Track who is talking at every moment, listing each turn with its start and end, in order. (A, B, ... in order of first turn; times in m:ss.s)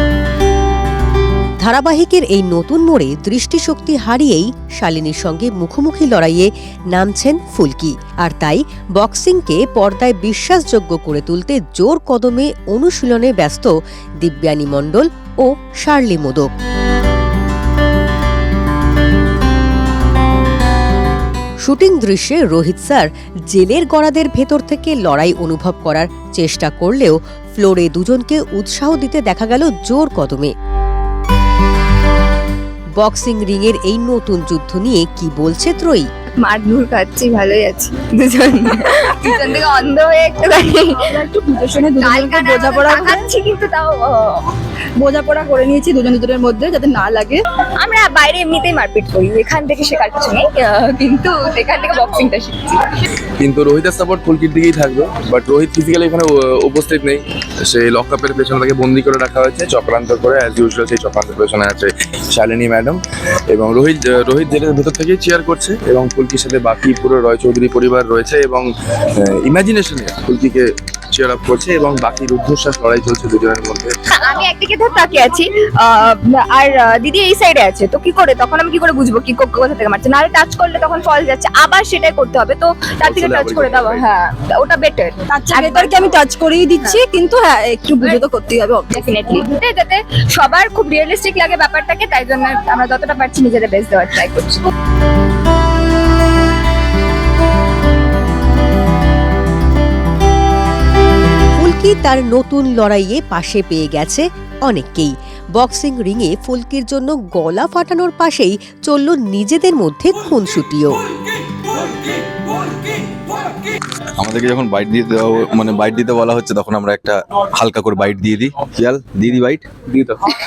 0:01.6-0:16.5 A
0:21.6-0:30.5 A
0:33.0-0:36.1 A
0:36.4-0:41.0 B
0:41.1-0:43.2 C
0:42.0-0:44.4 B
0:45.9-0:47.4 C
0:47.8-0:52.9 B
0:53.4-1:03.0 D
1:03.5-1:14.0 D
1:14.2-1:26.2 B
1:23.0-1:24.1 D
1:25.3-1:28.9 C
1:28.0-1:28.3 B
1:28.9-1:34.6 B
1:41.6-1:51.0 A
1:54.2-1:59.7 E